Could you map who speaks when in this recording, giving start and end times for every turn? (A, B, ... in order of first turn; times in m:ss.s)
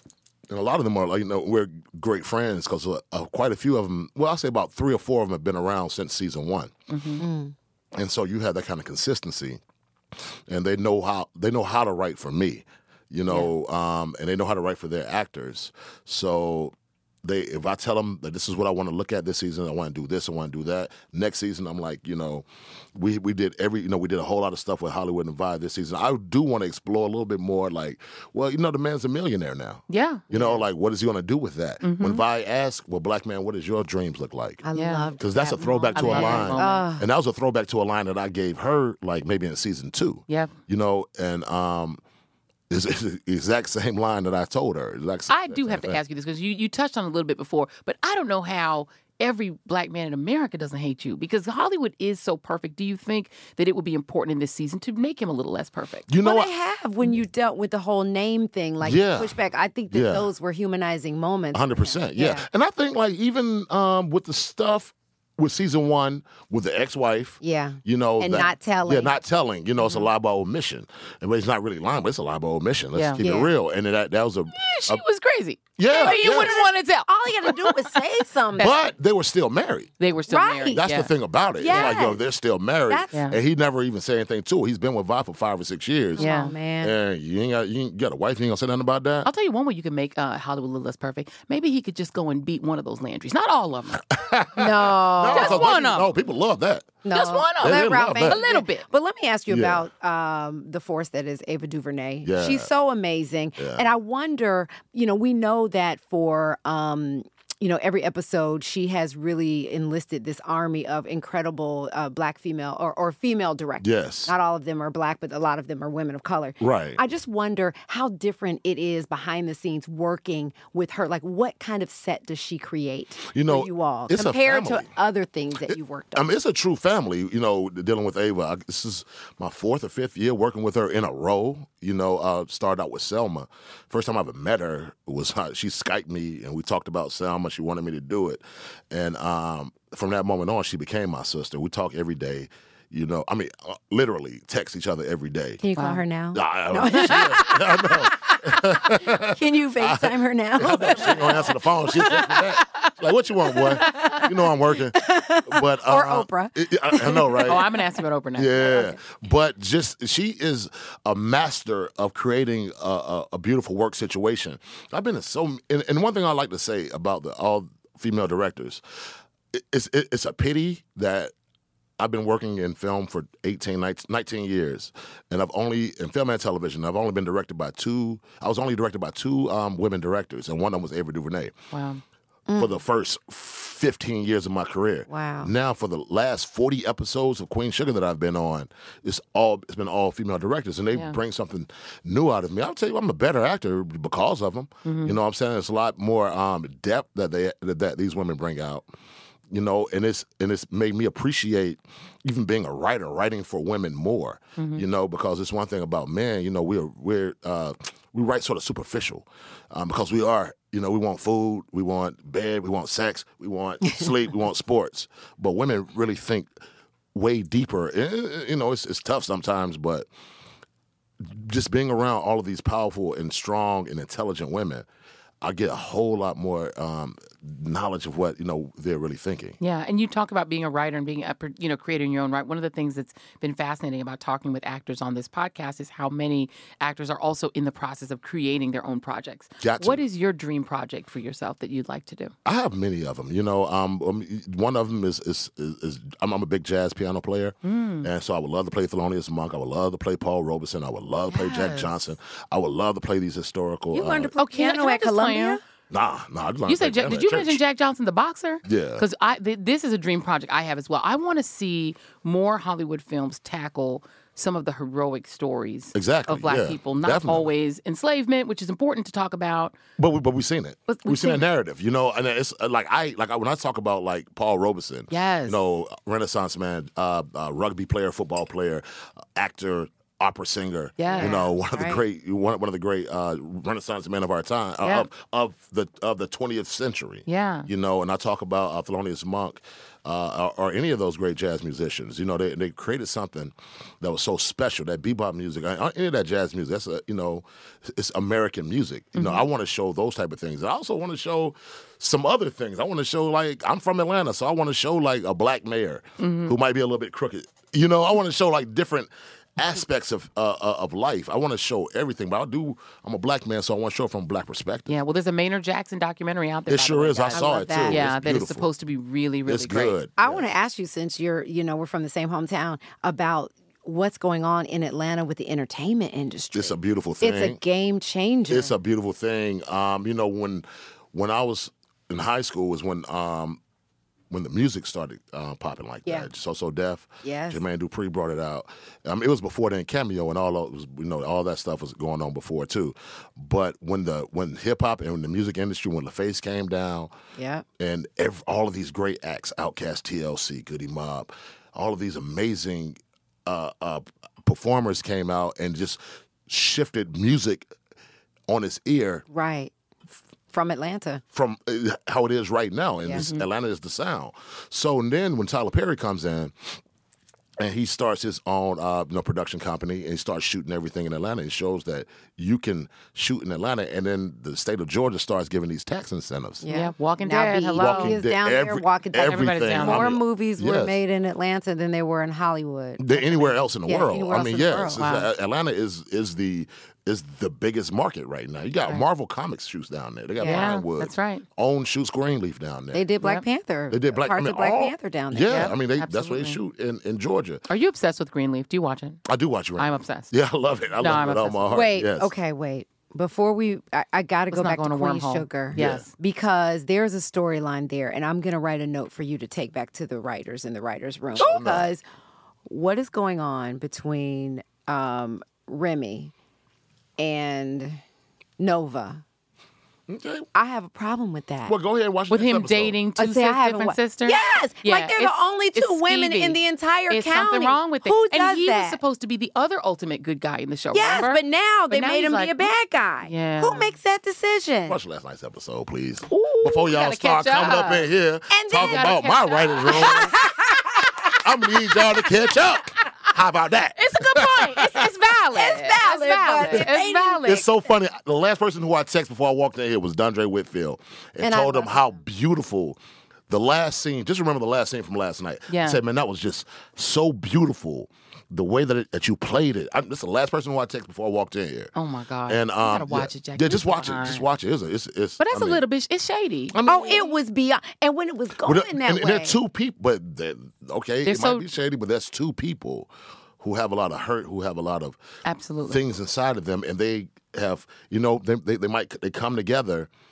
0:00.5-0:06.7 A
0:06.9-0:07.2 B
0:07.2-0:07.5 C
0:07.9-0:09.6 A
0:10.5-0:34.6 A
0:29.9-0:30.2 B
0:30.3-0:30.6 C
0:31.8-0:32.2 B
0:34.6-0:37.0 C
0:34.7-0:35.1 B
0:35.2-0:42.0 A
0:35.9-0:36.8 B
0:40.3-0:40.5 B
0:42.7-0:46.0 A
0:45.3-0:56.1 B
0:56.1-0:56.5 A
0:56.2-1:02.4 C
0:58.8-0:59.3 A
0:59.9-1:00.3 A
1:01.5-1:15.0 A
1:07.4-1:09.1 C
1:09.8-1:10.1 B
1:12.9-1:13.2 B
1:13.2-1:13.5 C
1:14.6-1:18.0 B
1:15.8-1:16.6 A
1:15.9-1:18.7 C
1:18.5-1:18.8 B
1:18.6-1:19.9 A
1:20.0-1:21.1 B
1:20.3-1:20.8 C
1:20.7-1:29.3 A
1:21.6-1:22.2 C
1:21.7-1:21.9 B
1:22.9-1:23.2 C
1:26.2-1:26.9 C
1:26.2-1:26.5 B
1:29.2-1:34.0 B
1:34.1-1:37.0 A
1:34.6-1:35.7 C
1:35.3-1:36.1 B
1:37.0-2:06.3 C
1:37.1-1:38.8 B
1:37.6-1:38.4 A
1:39.5-1:39.9 A
1:42.2-1:42.7 A
1:43.6-1:43.8 A
1:53.8-1:54.3 A
1:56.6-1:57.0 A
2:03.3-2:04.9 A
2:05.7-2:25.6 A
2:25.6-2:32.3 C
2:25.8-2:26.0 B
2:26.3-2:37.7 A
2:26.8-2:27.5 B
2:32.0-2:32.9 B
2:33.5-2:34.3 C
2:33.6-2:34.3 B
2:34.9-2:37.7 C
2:37.4-2:38.7 B
2:38.3-2:51.3 A
2:38.6-2:39.0 C
2:52.0-3:01.5 A
3:01.7-3:02.0 B
3:02.5-3:02.8 C
3:02.6-3:18.9 A
3:05.1-3:05.5 C
3:14.8-3:15.2 B
3:19.5-3:36.5 A
3:24.6-3:24.8 B
3:37.1-3:40.1 A
3:41.2-3:44.8 A
3:45.4-3:49.6 A
3:49.6-4:02.3 B
3:59.6-4:00.0 A
4:02.4-4:14.3 A
4:07.6-4:08.1 B
4:11.3-4:11.9 B
4:13.9-4:15.6 C
4:14.4-4:15.6 B
4:15.9-4:17.6 A
4:16.7-4:29.7 B
4:18.6-4:19.0 A
4:25.9-4:27.5 A
4:30.0-5:15.0 A
4:30.9-4:31.4 B
4:35.1-4:35.6 B
4:41.0-4:41.3 B
4:41.1-4:42.0 C
4:44.8-4:45.1 B
4:47.3-4:47.7 B
4:59.2-4:59.4 B
5:06.2-5:06.5 B
5:14.9-5:20.0 B
5:16.7-5:18.7 A
5:17.3-5:18.0 C
5:19.4-5:20.4 A
5:20.2-5:28.7 C
5:26.5-5:27.6 A
5:28.5-5:33.6 A
5:34.3-5:47.1 A
5:37.2-5:37.6 C
5:47.4-5:47.6 C
5:47.8-5:57.7 A
5:58.5-5:59.2 A
5:59.3-5:59.7 C
6:00.5-6:01.2 C
6:01.3-6:06.8 A
6:03.1-6:03.4 B
6:07.6-6:16.6 A
6:16.6-6:25.0 C
6:16.7-6:18.2 B
6:17.8-6:21.0 A
6:19.2-6:20.1 B
6:23.0-6:33.0 A
6:25.0-6:25.3 B
6:30.4-6:30.7 C
6:30.4-6:31.4 B
6:32.9-6:35.7 C
6:33.9-6:37.6 A
6:35.5-6:36.6 B
6:37.7-6:39.2 B
6:39.2-6:42.3 A
6:39.8-6:40.3 B
6:41.0-6:41.7 B
6:41.7-6:52.0 C
6:44.5-6:46.0 B
6:45.7-6:46.1 A
6:51.4-6:51.8 A
6:52.7-6:56.3 C
6:57.2-6:58.0 C
6:58.6-6:59.2 C
7:00.1-7:00.5 A
7:00.5-7:01.8 C
7:01.7-7:03.0 A
7:02.3-7:12.7 B
7:03.2-7:09.0 C
7:10.9-7:15.0 C
7:13.2-7:13.9 B
7:14.9-7:20.3 A
7:16.3-7:18.1 B
7:18.5-7:19.1 C
7:18.7-7:20.3 B
7:19.9-7:22.2 C
7:21.4-7:25.1 A
7:24.0-7:27.6 B
7:25.5-7:27.4 C
7:27.4-7:33.0 A
7:31.4-7:32.1 C
7:33.5-7:41.9 A
7:35.7-7:36.0 B
7:42.0-7:44.5 B
7:42.5-7:45.8 A
7:45.4-7:46.8 B
7:46.7-7:47.3 A
7:46.8-7:49.6 C
7:48.6-7:55.2 A
7:51.2-7:51.6 B
7:55.4-7:56.0 B
7:55.8-8:00.1 A